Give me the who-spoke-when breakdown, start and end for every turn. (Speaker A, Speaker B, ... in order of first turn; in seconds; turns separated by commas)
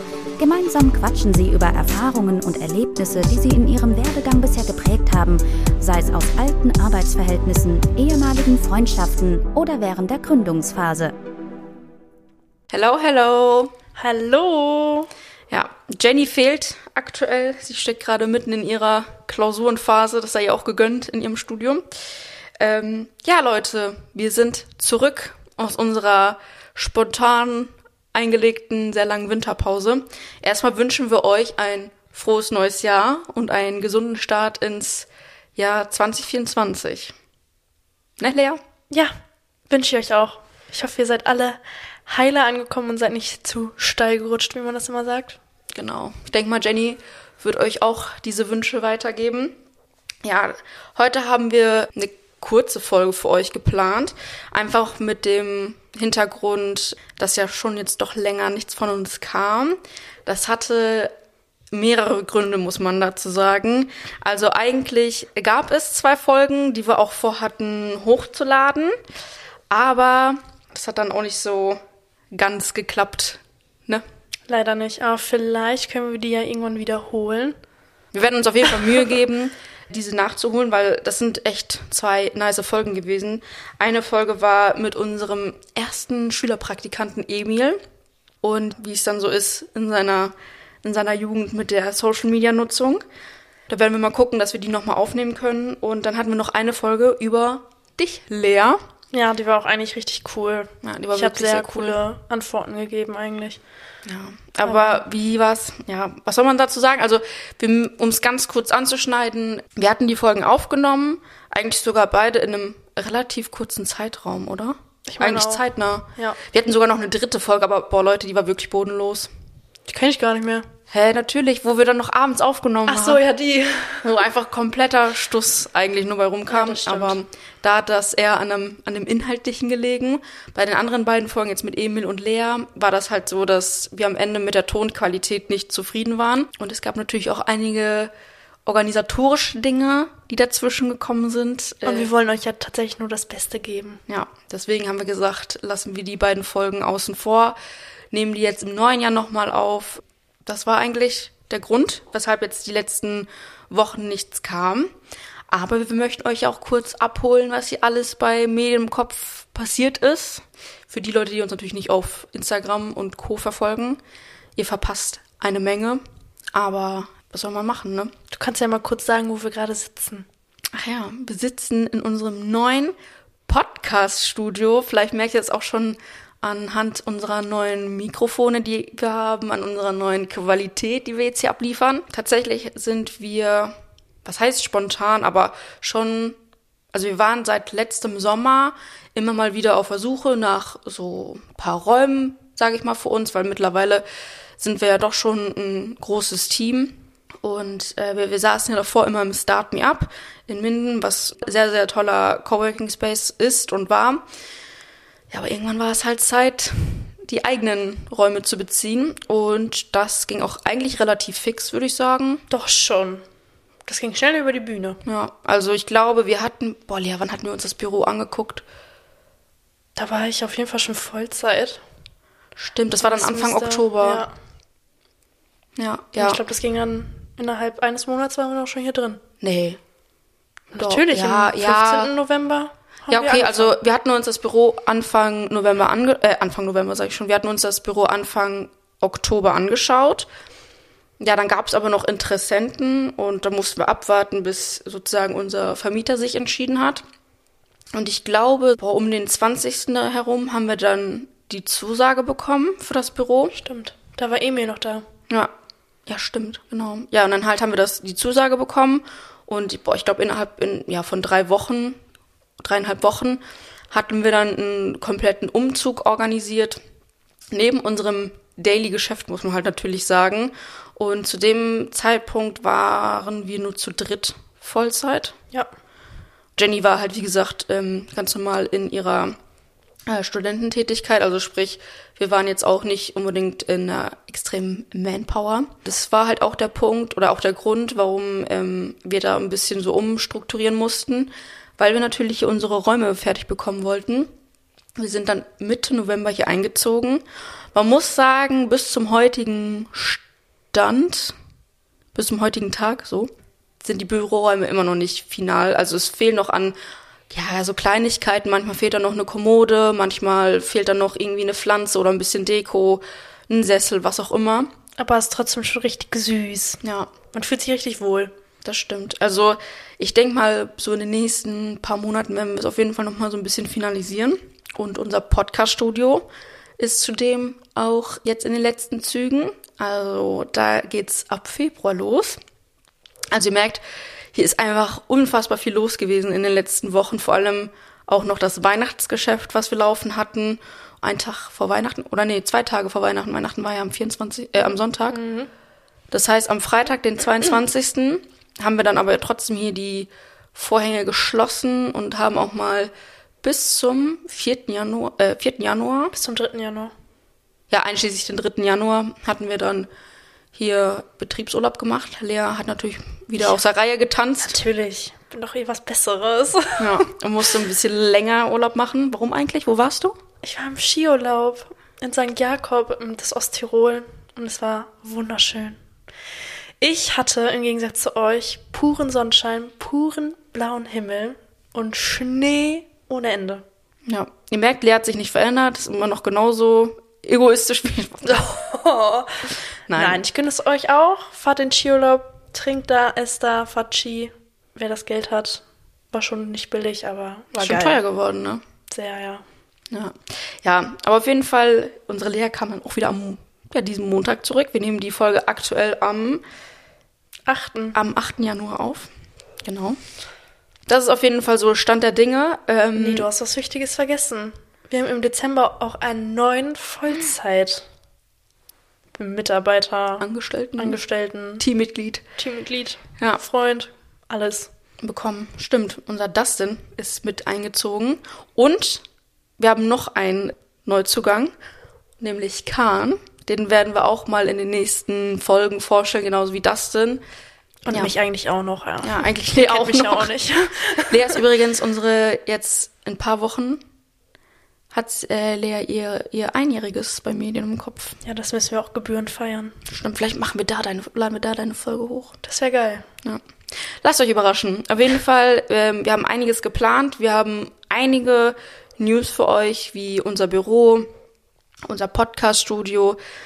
Speaker A: 0.4-11.1, Speaker B: 12.7-13.7, Speaker C: 14.0-15.1, Speaker B: 15.5-21.8, Speaker B: 22.6-37.1, Speaker B: 38.2-38.6, Speaker C: 39.7-45.4, Speaker B: 45.7-49.5, Speaker B: 50.2-61.1, Speaker B: 61.7-68.9, Speaker B: 69.7-71.8, Speaker B: 72.3-74.0, Speaker C: 74.5-77.6, Speaker B: 78.1-87.8, Speaker B: 88.4-93.0, Speaker B: 93.7-98.8, Speaker C: 99.1-103.6, Speaker B: 100.8-102.0, Speaker B: 104.0-119.3, Speaker C: 104.6-105.0, Speaker C: 115.1-116.4, Speaker C: 119.9-120.7, Speaker B: 120.9-123.2, Speaker C: 122.9-124.1, Speaker B: 124.0-138.1, Speaker C: 126.5-127.2, Speaker B: 138.7-142.1, Speaker C: 141.8-144.0, Speaker B: 144.1-147.6, Speaker B: 148.1-154.9, Speaker B: 155.5-164.0, Speaker B: 164.6-166.0, Speaker B: 166.5-168.1, Speaker C: 168.3-170.3, Speaker B: 170.7-172.9, Speaker B: 173.5-183.7, Speaker B: 184.2-186.4, Speaker B: 186.9-194.0, Speaker B: 194.6-204.2, Speaker B: 205.3-212.4, Speaker C: 212.5-213.2, Speaker C: 213.8-215.0, Speaker B: 215.0-218.6, Speaker C: 219.9-221.8, Speaker B: 222.6-224.3, Speaker C: 223.0-224.3, Speaker B: 225.8-226.4, Speaker C: 226.2-229.2, Speaker B: 229.4-229.8, Speaker C: 230.7-233.8, Speaker B: 230.7-232.1, Speaker B: 233.1-240.3, Speaker B: 241.2-247.0, Speaker B: 247.9-253.6, Speaker C: 253.5-255.1, Speaker B: 256.1-262.0, Speaker B: 262.6-266.8, Speaker B: 267.5-275.3, Speaker B: 276.6-279.3, Speaker B: 280.1-294.3, Speaker B: 295.0-300.2, Speaker B: 300.7-301.3, Speaker B: 302.1-303.3, Speaker B: 303.8-306.8, Speaker B: 307.3-314.7, Speaker C: 315.0-318.3, Speaker B: 316.8-317.1, Speaker B: 318.6-326.3, Speaker B: 326.8-332.4, Speaker B: 333.3-333.8, Speaker B: 334.3-345.2, Speaker C: 345.1-345.5, Speaker B: 346.1-352.9, Speaker B: 353.4-356.1, Speaker C: 356.1-356.9, Speaker B: 357.7-359.9, Speaker B: 360.5-364.6, Speaker C: 364.4-367.1, Speaker B: 366.8-370.1, Speaker C: 370.4-375.8, Speaker C: 376.8-383.6, Speaker B: 384.1-388.5, Speaker C: 388.2-398.0, Speaker B: 389.9-390.2, Speaker B: 397.6-398.6, Speaker C: 398.9-399.4, Speaker B: 399.9-406.4, Speaker C: 407.5-408.0, Speaker B: 407.9-409.1, Speaker B: 409.6-410.0, Speaker B: 410.9-413.3, Speaker C: 412.9-417.9, Speaker C: 419.1-421.6, Speaker B: 420.2-421.0, Speaker B: 421.6-422.2, Speaker C: 422.4-424.7, Speaker B: 425.0-429.0, Speaker B: 429.6-431.5, Speaker B: 432.2-437.2, Speaker C: 437.8-441.4, Speaker B: 439.0-443.8, Speaker B: 444.9-448.2, Speaker C: 448.2-449.8, Speaker B: 449.9-452.4, Speaker C: 452.4-453.1, Speaker B: 453.9-461.1, Speaker B: 461.8-463.2